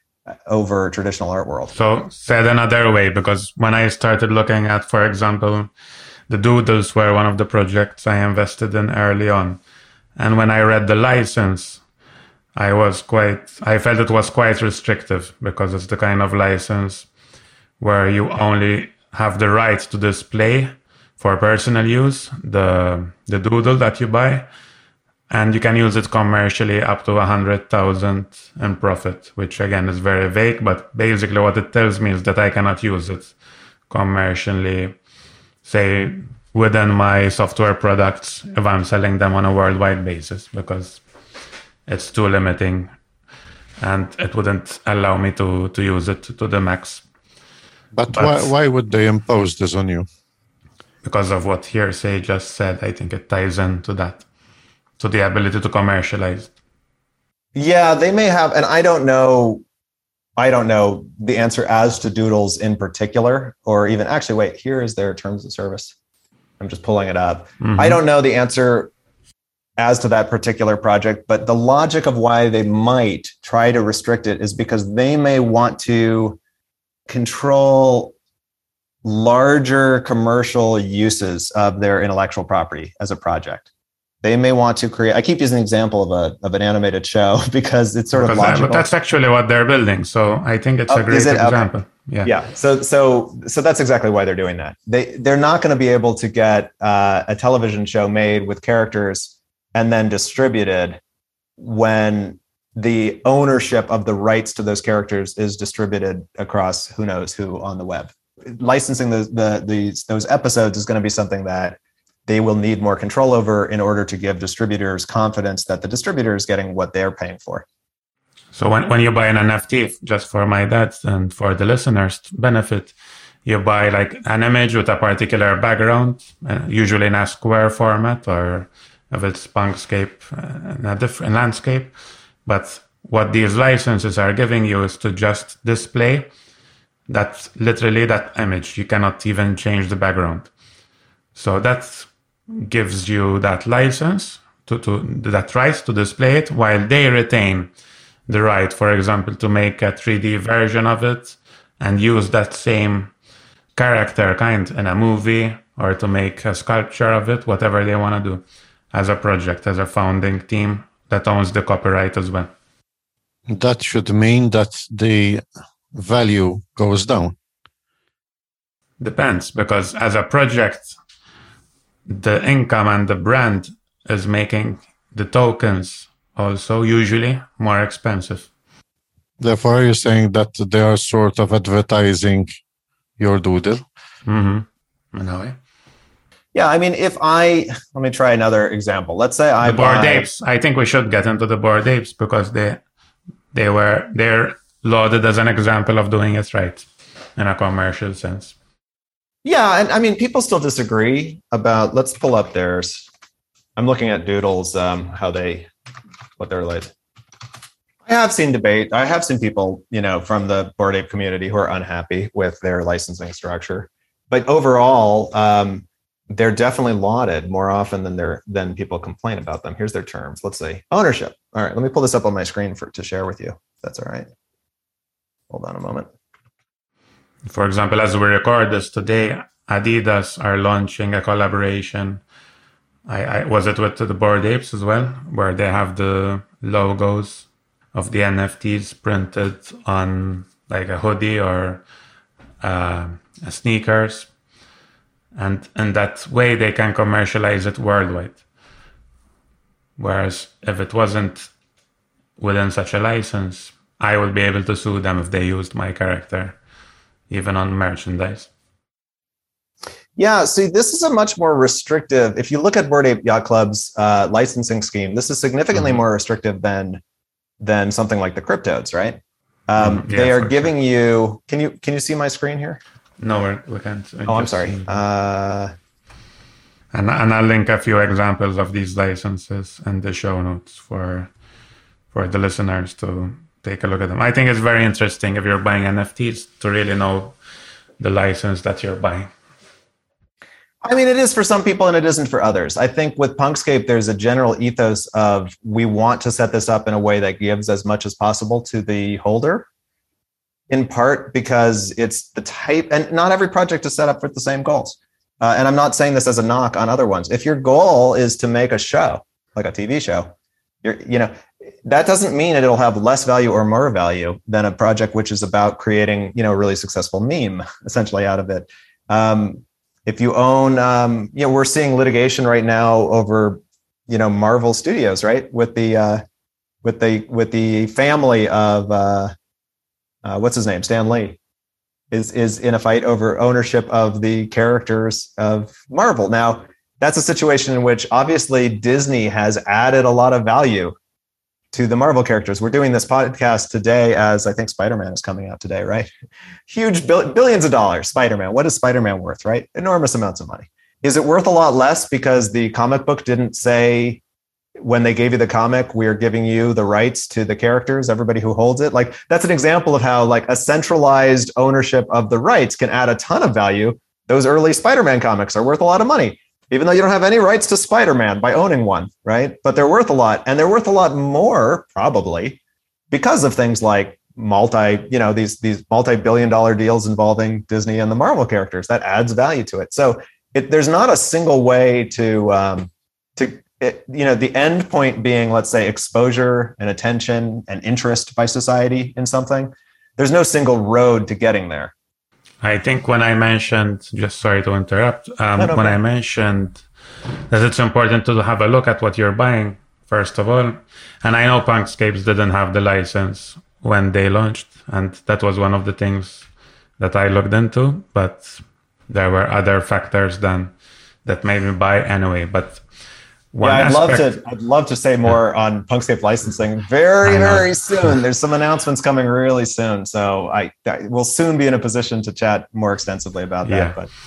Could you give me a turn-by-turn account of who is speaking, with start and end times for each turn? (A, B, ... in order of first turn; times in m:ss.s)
0:00.4-0:01.7 A
0:01.7-0:05.7 B
0:06.3-0:09.6 B
0:10.2-0:11.8 B
0:12.5-0:17.1 B
0:17.8-0:24.5 B
0:25.3-0:33.3 B
0:33.9-0:35.0 B
0:35.6-0:41.0 B
0:41.9-0:42.9 B
0:43.8-0:47.0 B
0:47.9-0:50.0 C
0:48.1-0:48.5 B
0:51.0-0:54.2 B
0:55.0-0:56.5 B
0:57.5-0:59.6 A
1:00.4-1:05.9 A
1:06.6-1:08.9 A
1:07.6-1:08.0 B
1:09.8-1:16.4 A
1:17.1-1:18.1 A
1:19.0-1:23.7 A
1:24.2-1:28.8 A
1:28.1-1:32.3 B
1:30.9-1:31.7 A
1:32.2-1:41.0 A
1:41.6-1:57.6 A
1:58.5-2:11.9 B
2:12.4-2:16.3 B
2:17.1-2:20.5 B
2:21.3-2:27.7 B
2:28.3-2:33.1 B
2:33.7-2:42.5 B
2:43.5-2:47.4 C
2:49.0-2:51.0 B
2:52.1-2:58.5 B
2:59.4-3:02.5 C
3:03.2-3:03.8 C
3:04.2-3:05.6 B
3:06.5-3:10.3 A
3:09.6-3:12.8 B
3:13.5-3:18.5 B
3:19.4-3:23.1 A
3:23.8-3:25.7 A
3:26.4-3:26.9 A
3:28.0-3:44.3 A
3:45.5-3:46.1 A
3:47.5-3:52.2 B
3:53.1-4:01.8 B
4:02.6-4:04.3 B
4:05.4-4:08.4 B
4:10.0-4:11.5 B
4:12.4-4:16.6 B
4:17.3-4:18.5 B
4:20.2-4:27.0 A
4:25.7-4:26.0 B
4:27.6-4:32.8 A
4:29.8-4:30.7 B
4:33.2-4:34.9 B
4:34.2-4:35.7 A
4:36.9-4:41.3 B
4:42.1-4:47.4 B
4:48.0-4:49.3 B
4:50.8-4:59.6 A
5:00.7-5:10.3 A
5:10.8-5:11.3 A
5:11.8-5:26.2 A
5:26.8-5:29.3 A
5:30.2-5:31.4 A
5:32.1-5:40.9 A
5:41.7-5:46.1 A
5:46.7-5:54.2 A
5:54.8-6:12.6 A
6:13.1-6:31.9 A
6:32.6-6:36.8 B
6:35.6-6:36.0 A
6:37.5-6:46.5 B
6:47.0-6:50.7 B
6:51.2-6:52.8 B
6:53.5-6:54.3 B
6:53.6-7:04.1 A
6:57.2-6:57.7 B
7:03.6-7:04.0 B